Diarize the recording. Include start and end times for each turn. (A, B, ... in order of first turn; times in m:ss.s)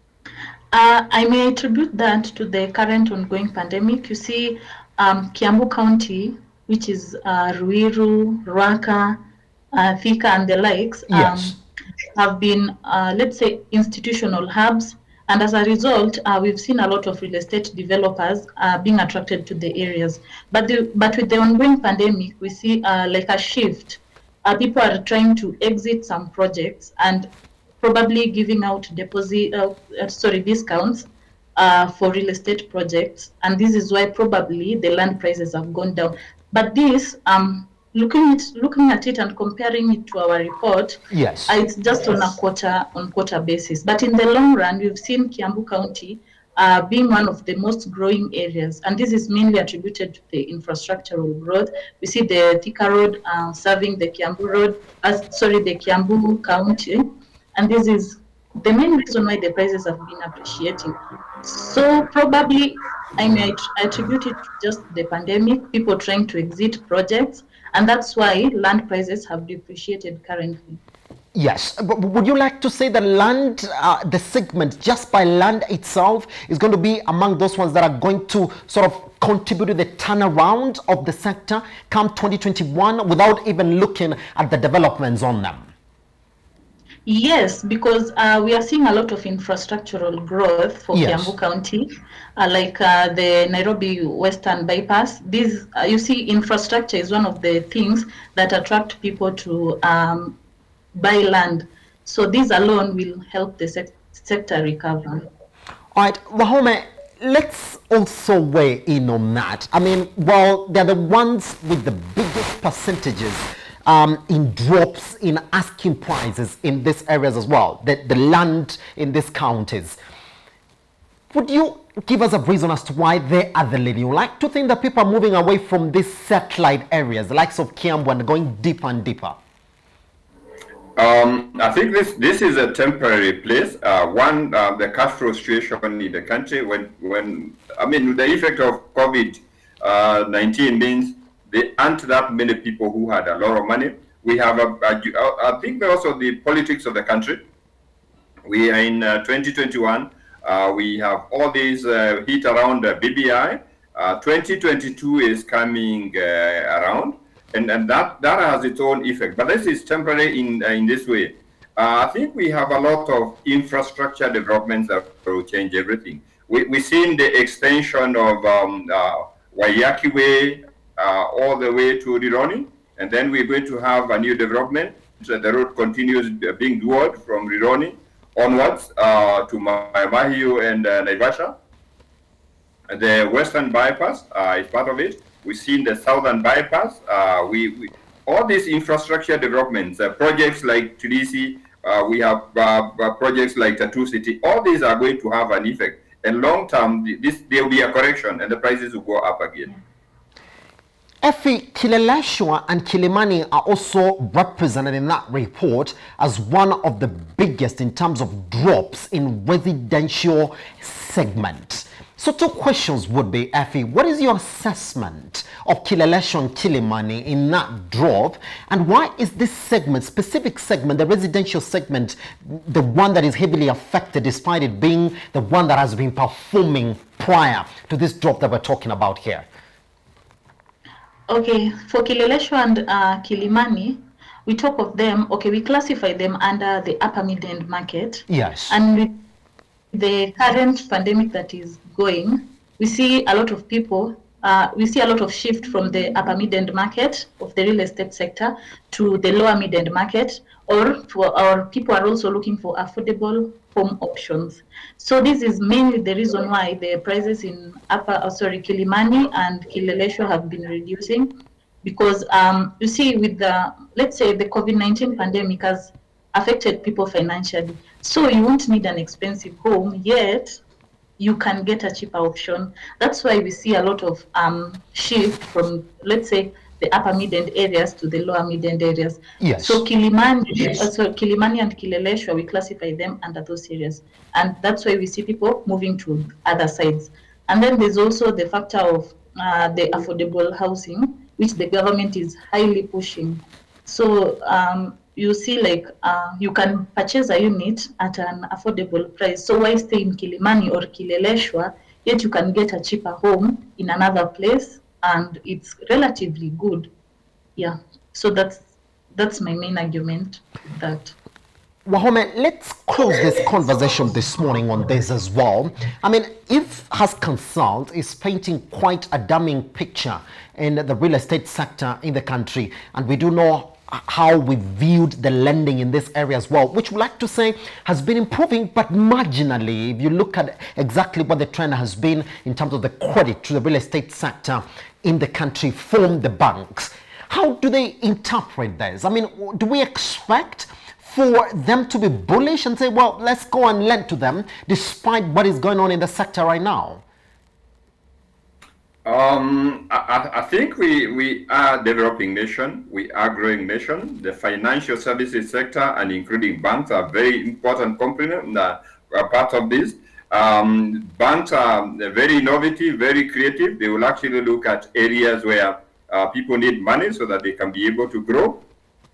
0:00.7-0:09.2 A
0:09.7-0:11.6 A
0:11.1-0:11.6 B
0:12.2-0:27.3 A
0:27.8-1:10.8 A
0:41.1-0:41.6 B
1:11.3-1:25.7 B
1:27.1-1:40.4 A
1:30.9-1:31.3 B
1:41.0-1:45.3 A
1:45.9-2:00.0 B
2:01.3-2:09.4 B
2:11.0-2:27.4 C
2:28.5-3:01.6 C
3:02.9-3:19.8 C
3:21.2-3:49.5 B
3:51.3-3:59.2 A
3:58.3-3:58.8 B
3:59.9-4:21.3 A
4:21.8-4:30.6 A
4:31.2-5:06.9 A
4:39.4-4:39.8 B
5:07.6-5:11.1 A
5:11.9-5:47.0 B
5:49.0-6:08.6 C